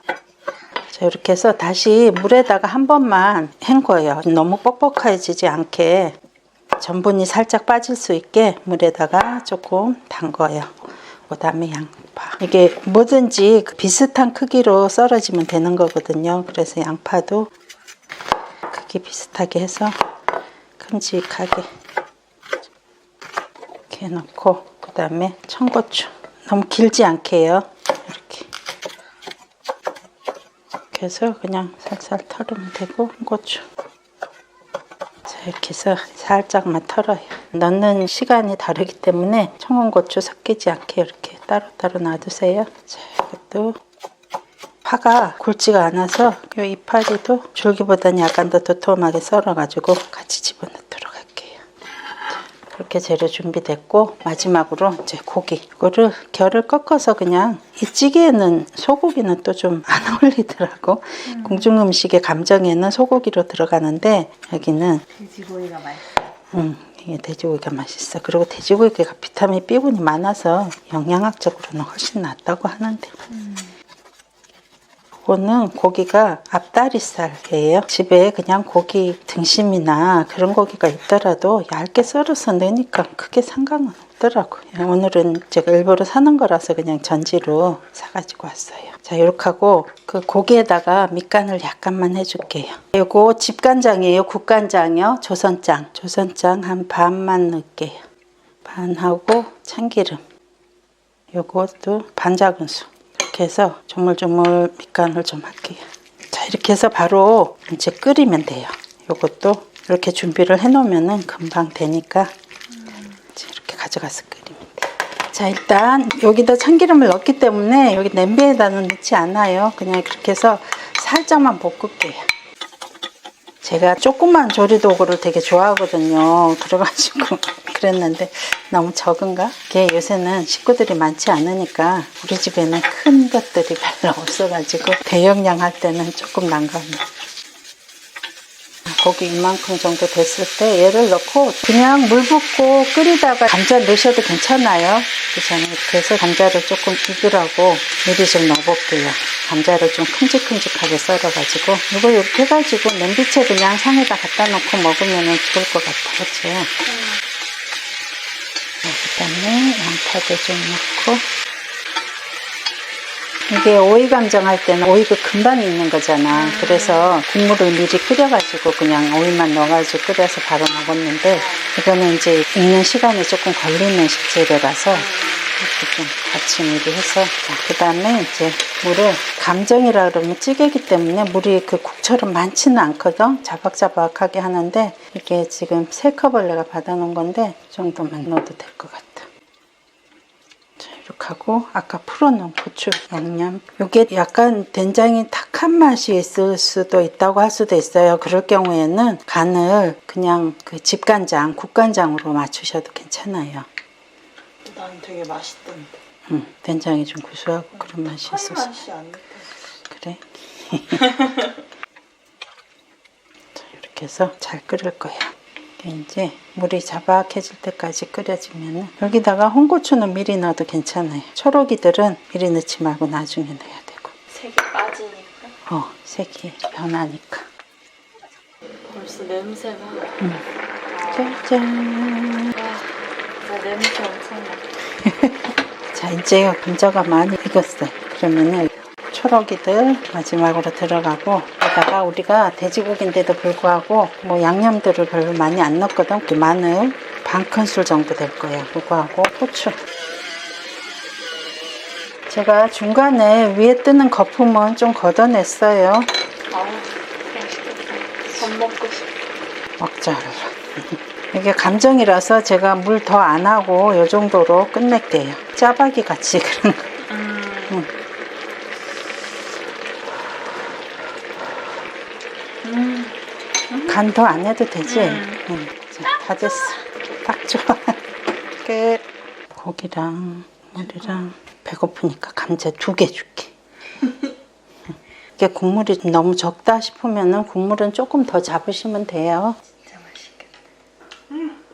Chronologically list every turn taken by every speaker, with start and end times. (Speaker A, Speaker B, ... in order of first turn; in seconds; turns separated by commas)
Speaker A: 0.9-6.2, Speaker A: 6.8-17.5, Speaker A: 18.7-20.0, Speaker A: 20.8-21.7, Speaker A: 23.9-28.5, Speaker A: 30.9-33.6, Speaker A: 35.2-43.8, Speaker A: 44.8-51.6, Speaker A: 52.3-65.1, Speaker B: 61.2-61.8, Speaker B: 65.1-66.1, Speaker A: 66.5-73.2, Speaker B: 73.3-73.7, Speaker A: 75.2-98.0, Speaker A: 98.6-100.2, Speaker A: 101.3-112.3, Speaker A: 113.2-122.2, Speaker A: 123.6-137.0, Speaker A: 138.9-156.7, Speaker B: 156.9-157.2, Speaker A: 158.8-161.2, Speaker A: 163.5-175.1, Speaker B: 166.3-167.1, Speaker B: 171.3-171.7, Speaker B: 174.9-175.6, Speaker A: 175.6-189.3, Speaker A: 190.8-203.7, Speaker B: 204.6-205.9, Speaker A: 206.3-208.8, Speaker B: 207.9-209.6, Speaker A: 209.8-211.1, Speaker B: 211.0-211.5, Speaker A: 213.5-224.1, Speaker B: 224.3-225.5, Speaker A: 225.7-227.5, Speaker B: 228.9-230.2, Speaker A: 230.2-230.4, Speaker B: 230.9-231.4, Speaker A: 231.1-232.5, Speaker B: 232.5-234.7, Speaker A: 235.0-249.8, Speaker A: 252.3-256.1, Speaker B: 256.5-259.2, Speaker A: 259.8-266.9, Speaker B: 267.1-267.8, Speaker B: 272.6-273.2, Speaker B: 273.7-274.1, Speaker A: 273.9-278.0, Speaker B: 274.8-275.4, Speaker A: 278.6-283.5, Speaker B: 280.8-281.2, Speaker B: 284.0-284.3, Speaker A: 285.4-289.6, Speaker B: 289.8-290.5, Speaker B: 291.3-291.6